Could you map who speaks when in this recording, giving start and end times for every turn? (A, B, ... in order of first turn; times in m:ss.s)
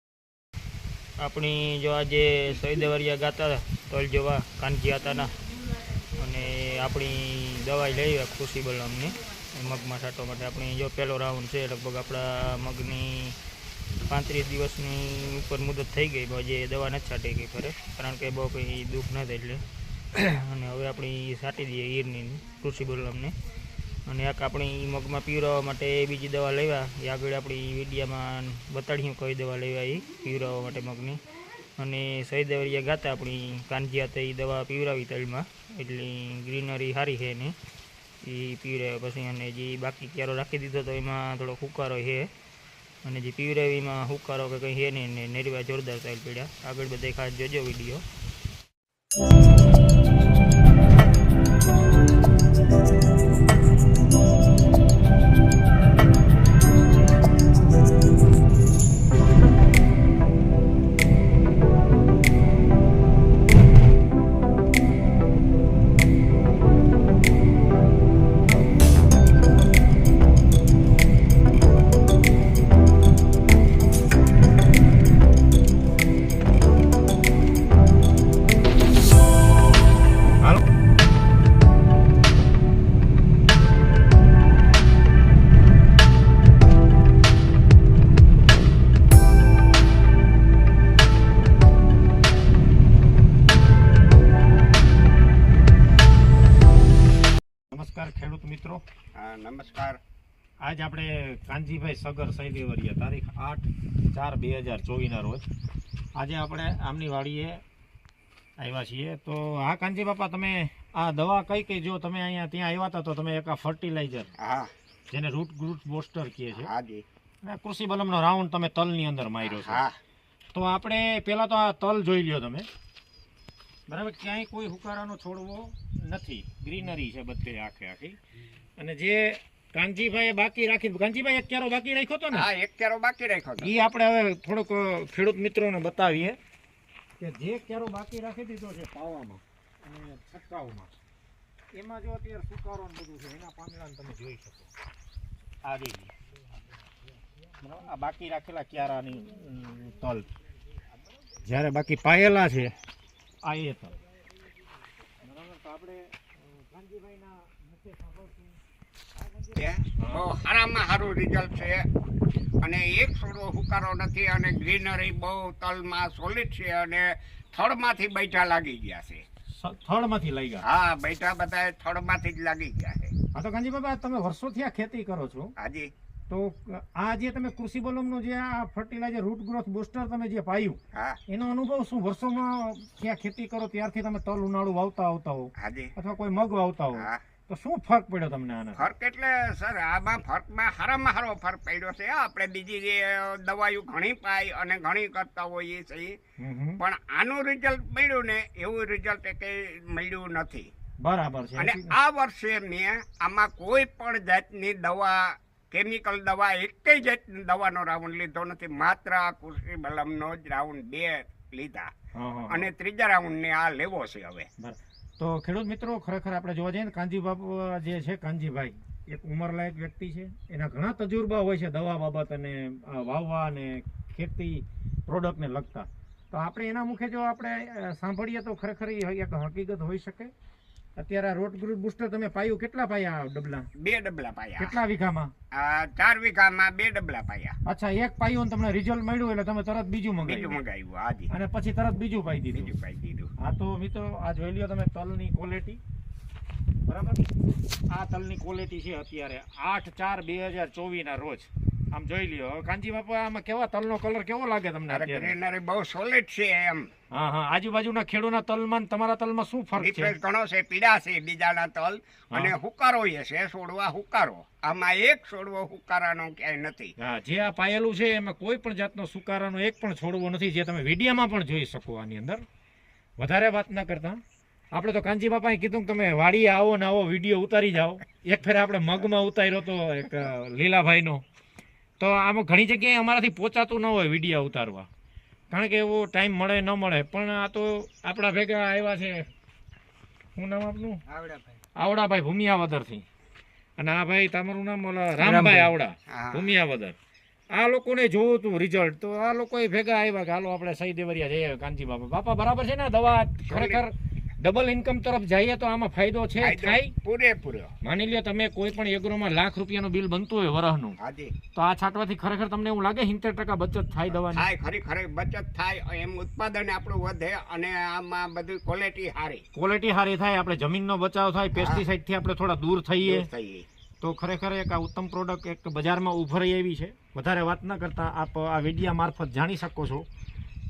0:01.2-0:05.3 A
0:06.2-0:13.4 A
0:14.0-0:23.3 A
0:24.0-0:31.2 A
0:31.8-0:37.5 A
0:38.2-0:42.3 A
0:43.0-0:48.0 A
1:37.7-1:38.8 B
1:39.2-1:40.0 C
1:40.6-1:45.4 B
1:46.2-1:47.6 B
1:48.6-1:54.3 B
1:54.4-1:54.7 C
1:55.1-1:56.7 B
1:56.6-1:57.0 C
1:57.4-1:59.8 B
1:59.4-2:00.0 C
2:00.5-2:02.7 B
2:03.9-2:08.2 B
2:08.8-2:12.5 B
2:12.3-2:13.7 C
2:13.6-2:16.4 B
2:17.2-2:20.9 B
2:21.7-2:24.7 B
2:25.6-2:26.1 B
2:27.5-2:30.3 B
2:31.4-2:32.7 B
2:33.4-2:34.0 B
2:35.2-2:38.6 B
2:39.2-2:40.3 B
2:39.5-2:41.8 C
2:42.6-2:49.2 C
2:49.6-2:50.6 B
2:50.6-2:53.1 C
2:53.3-2:55.5 B
2:55.6-2:55.9 C
2:56.3-3:08.8 B
3:05.6-3:05.9 C
3:08.8-3:16.2 C
3:16.4-3:16.8 B
3:16.8-3:20.7 C
3:21.0-3:22.0 B
3:21.6-3:31.9 C
3:32.1-3:32.7 B
3:32.5-3:34.5 C
3:34.6-3:50.3 B
3:51.0-3:53.7 B
3:53.8-3:54.8 C
3:54.6-3:55.3 B
3:55.5-3:57.5 C
3:57.6-4:00.6 B
4:00.2-4:01.3 C
4:01.3-4:02.7 B
4:02.5-4:03.3 C
4:03.4-4:05.8 B
4:06.9-4:07.2 B
4:07.9-4:15.4 B
4:14.9-4:16.9 C
4:17.1-4:20.2 B
4:19.8-4:26.9 C
4:27.0-4:32.4 B
4:33.2-4:34.2 B
4:34.7-4:41.2 B
4:42.0-4:44.9 B
4:45.5-4:49.2 B
4:50.4-4:51.0 B
4:51.1-4:51.6 C
4:51.8-4:53.0 B
4:53.8-4:56.9 B
4:55.2-4:56.6 C
4:57.5-5:06.9 B
5:03.4-5:03.8 C
5:06.4-5:07.7 C
5:07.8-5:11.0 B
5:11.0-5:11.3 C
5:11.5-5:14.4 B
5:14.1-5:19.4 C
5:19.5-5:23.3 B
5:21.6-5:21.8 C
5:23.0-5:23.6 C
5:24.0-5:30.0 B